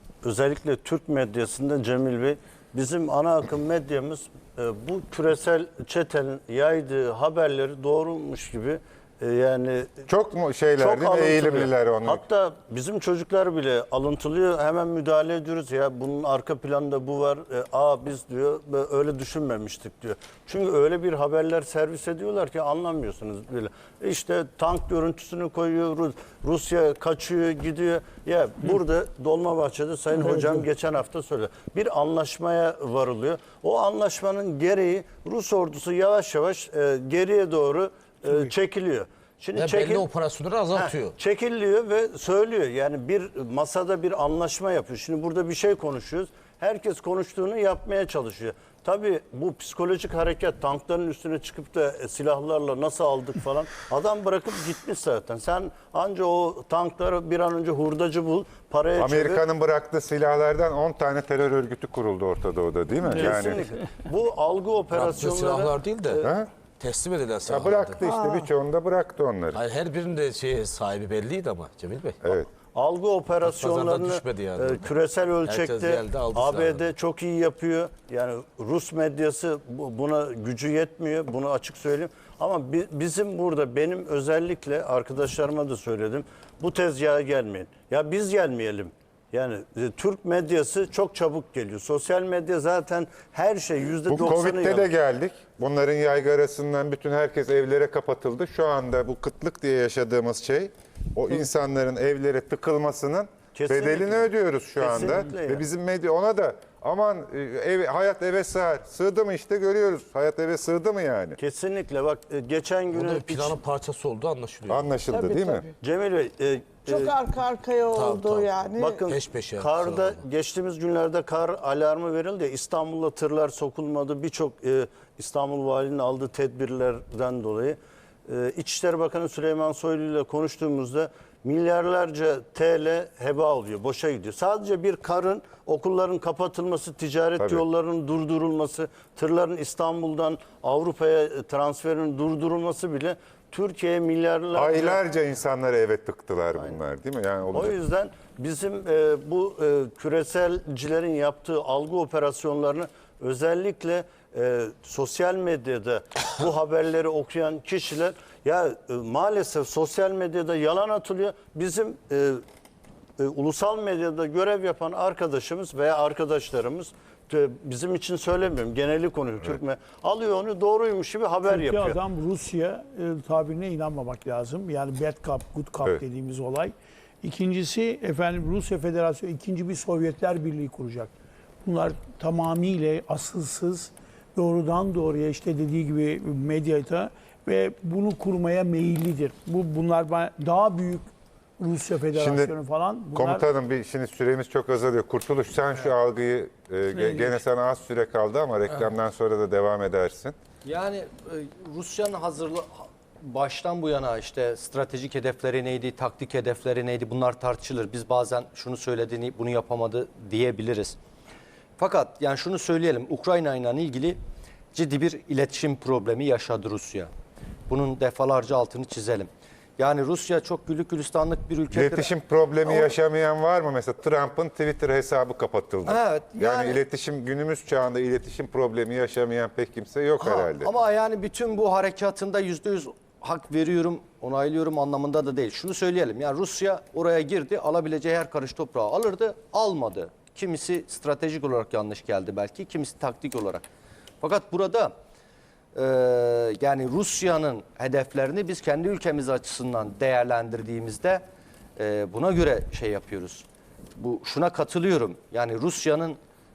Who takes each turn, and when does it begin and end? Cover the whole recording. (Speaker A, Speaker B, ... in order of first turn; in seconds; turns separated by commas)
Speaker A: 0.2-10.0, Speaker B: 10.1-12.2, Speaker A: 10.8-40.1, Speaker C: 30.2-30.6, Speaker D: 39.6-41.1, Speaker A: 40.7-59.4, Speaker B: 59.0-63.6, Speaker A: 63.1-66.3, Speaker D: 65.0-66.2, Speaker B: 66.2-66.5, Speaker D: 66.8-68.0, Speaker B: 67.5-69.6, Speaker E: 68.0-68.3, Speaker D: 69.5-72.1, Speaker B: 72.2-72.5, Speaker A: 72.7-94.9, Speaker D: 73.5-74.6, Speaker D: 75.5-76.7, Speaker B: 94.1-111.4, Speaker A: 103.5-105.7, Speaker A: 111.4-113.6, Speaker D: 112.9-115.0, Speaker B: 114.7-115.7, Speaker E: 115.1-115.6, Speaker A: 115.8-117.2, Speaker E: 116.9-118.9, Speaker D: 117.9-120.2, Speaker A: 118.8-145.0, Speaker B: 144.5-147.7, Speaker A: 147.5-162.4, Speaker A: 163.2-172.0, Speaker C: 171.4-181.1, Speaker C: 181.6-191.1, Speaker C: 191.6-193.4, Speaker B: 192.2-192.5, Speaker B: 193.1-200.3, Speaker C: 196.9-197.4, Speaker F: 200.7-202.7, Speaker F: 203.2-211.0, Speaker F: 211.8-214.2, Speaker F: 214.7-217.1, Speaker F: 217.7-222.1, Speaker B: 221.7-230.7, Speaker F: 222.7-222.9, Speaker F: 225.9-226.8, Speaker F: 230.2-243.7, Speaker F: 244.2-244.9, Speaker F: 245.8-251.2, Speaker F: 251.8-253.4, Speaker F: 254.0-256.2